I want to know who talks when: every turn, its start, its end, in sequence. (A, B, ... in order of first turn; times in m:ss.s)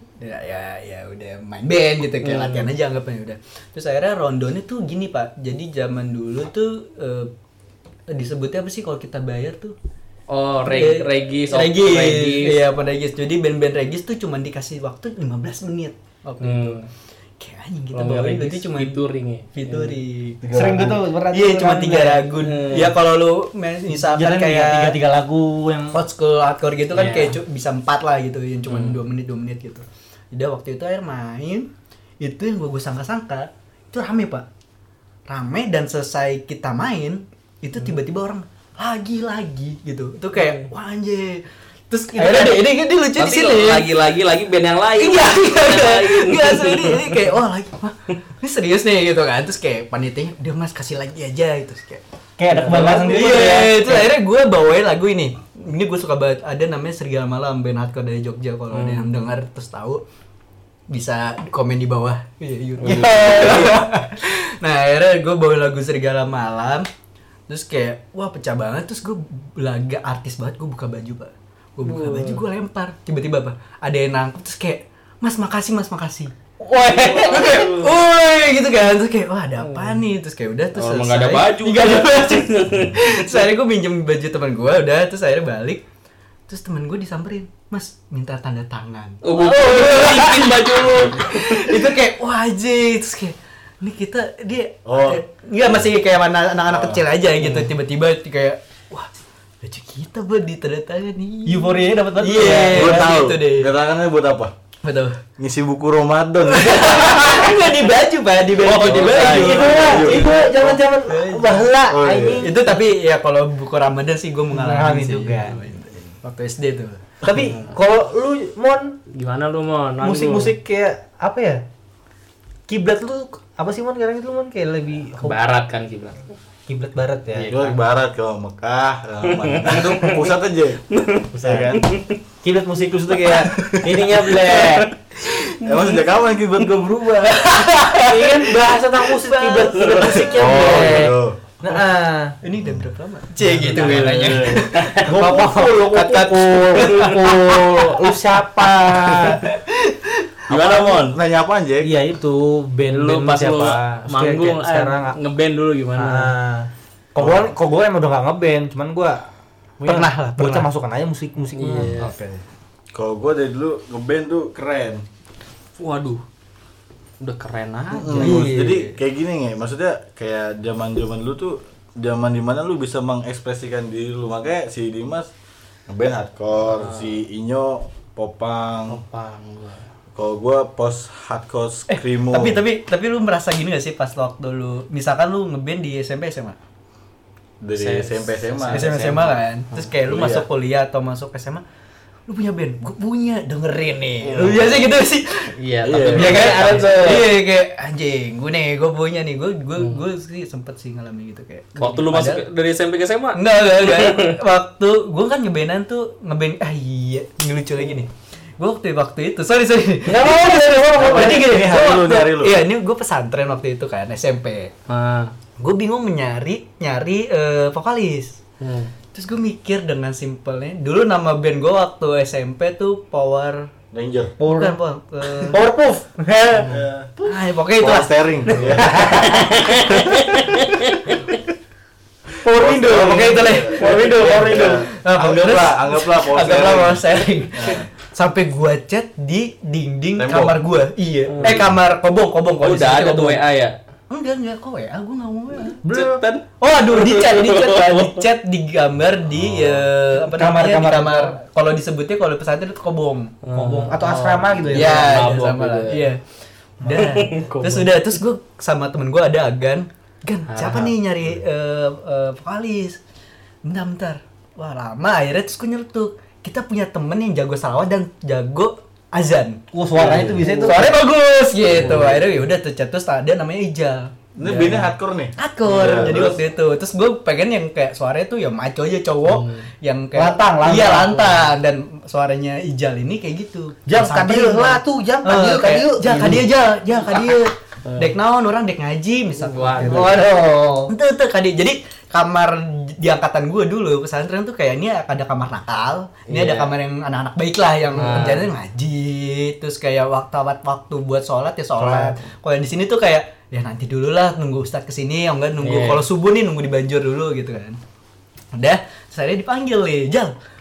0:00.2-0:07.3 A
0:02.2-0:02.7 B
0:08.1-0:09.8 A
0:10.3-0:12.6 B
0:10.7-0:16.8 A
0:16.4-0:16.9 B
0:17.4-0:19.0 A
0:17.9-0:20.0 B
0:19.5-0:20.4 A
0:20.4-0:21.0 C
0:20.5-0:22.3 D
0:21.3-0:25.0 A
0:22.4-0:23.0 B
0:24.0-0:26.0 D
0:25.9-0:31.7 A
0:26.9-0:27.4 B
0:28.7-0:29.0 B
0:32.2-0:34.5 A
0:35.3-0:44.0 A
0:40.3-0:40.7 B
0:42.2-0:42.5 D
0:42.3-0:42.6 B
0:43.2-0:47.3 B
0:45.0-0:52.0 A
0:52.4-0:54.1 D
0:52.5-0:53.6 B
0:52.6-1:00.0 A
0:58.7-0:59.1 B
1:00.9-1:06.9 A
1:02.8-1:03.8 B
1:02.8-1:03.7 D
1:07.5-1:16.3 A
1:11.8-1:12.4 B
1:16.7-1:18.0 B
1:16.8-1:17.2 D
1:16.9-1:25.8 A
1:19.6-1:20.0 B
1:20.8-1:23.5 B
1:26.5-1:39.1 A
1:29.2-1:31.8 B
1:34.9-1:35.9 C
1:36.7-1:37.0 C
1:37.4-1:37.7 B
1:39.6-1:43.7 A
1:41.5-1:43.2 D
1:42.5-1:44.5 C
1:44.8-1:45.2 A
1:45.4-1:47.4 C
1:46.4-1:51.7 A
1:48.6-1:50.2 B
1:48.8-1:50.8 C
1:49.2-1:52.7 D
1:51.9-1:52.5 C
1:52.4-1:57.0 A
1:54.5-1:55.6 D
1:57.2-1:59.0 D
1:59.1-2:00.5 B
2:00.0-2:01.6 D
2:02.7-2:05.4 D
2:05.2-2:06.3 B
2:06.7-2:07.5 D
2:07.4-2:07.8 B
2:07.5-2:10.8 C
2:09.2-2:10.3 B
2:10.9-2:12.2 B
2:11.3-2:11.8 D
2:11.4-2:11.8 C
2:12.4-2:14.9 D
2:13.5-2:14.0 C
2:14.2-2:14.9 B
2:15.6-2:17.6 C
2:15.6-2:16.1 B
2:17.6-2:21.0 A
2:17.6-2:22.4 D
2:20.1-2:21.4 C
2:22.4-2:26.2 A
2:22.6-2:22.9 C
2:23.4-2:24.0 D
2:23.4-2:25.5 B
2:24.0-2:24.7 C
2:25.0-2:29.4 D
2:26.7-2:27.4 A
2:26.8-2:27.3 B
2:29.3-2:30.3 A
2:30.5-2:31.2 B
2:30.5-2:32.0 C
2:31.8-2:35.2 D
2:32.9-2:36.3 B
2:36.0-2:39.3 D
2:37.2-2:37.5 C
2:39.8-2:40.7 A
2:39.8-2:42.1 D
2:41.6-2:42.1 B
2:42.0-2:42.4 A
2:42.9-2:45.0 C
2:45.8-2:46.2 B
2:47.2-2:48.4 B
2:47.9-2:55.3 C
2:48.1-2:49.0 A
2:55.9-2:59.0 C
2:56.7-2:57.2 B
2:58.9-2:59.8 B
3:00.1-3:02.6 C
3:01.9-3:06.6 A
3:07.6-3:08.9 C
3:07.7-3:09.9 B
3:08.7-3:11.6 A
3:10.1-3:10.5 C
3:12.3-3:15.5 A
3:14.2-3:14.8 C
3:14.4-3:14.7 B
3:15.6-3:17.4 B
3:15.8-3:16.8 C
3:16.1-3:22.4 A
3:16.6-3:17.2 D
3:21.8-3:24.3 B
3:23.3-3:34.7 A
3:30.1-3:31.6 D
3:31.0-3:32.6 C
3:34.9-3:35.3 B
3:35.6-3:38.4 A
3:38.6-3:38.9 B
3:39.1-3:43.7 A
3:43.9-3:44.4 C
3:44.4-3:44.8 D
3:44.4-3:45.6 A
3:45.5-3:46.7 D
3:46.6-3:46.8 B
3:46.7-3:47.1 C
3:47.2-3:48.9 A
3:47.8-3:50.2 C
3:48.6-3:51.2 B
3:48.8-3:49.4 D
3:52.5-3:57.9 C
3:52.5-4:03.4 A
3:52.5-3:54.9 D
4:00.2-4:00.6 C
4:01.3-4:01.7 B
4:01.4-4:01.7 C
4:02.6-4:03.8 B
4:04.1-4:05.8 A
4:05.8-4:06.2 D
4:05.9-4:08.2 B
4:06.6-4:13.3 A
4:09.3-4:09.9 C
4:10.3-4:11.4 D
4:13.4-4:16.1 B
4:13.5-4:15.2 D
4:14.7-4:16.2 A
4:16.8-4:23.0 A
4:16.9-4:18.2 B
4:20.5-4:20.9 B
4:23.6-4:50.2 A
4:29.7-4:31.0 D
4:30.0-4:30.8 B
4:31.7-4:32.3 B
4:34.4-4:36.4 C
4:35.7-4:36.2 B
4:39.2-4:39.7 B
4:40.1-4:41.4 D
4:43.9-4:46.5 D
4:47.8-4:48.1 B
4:49.4-4:50.2 B
4:49.8-4:50.9 D
4:50.9-5:07.8 A
4:56.3-4:56.7 B
4:58.0-4:58.5 B
5:05.6-5:06.0 B
5:08.5-5:10.3 A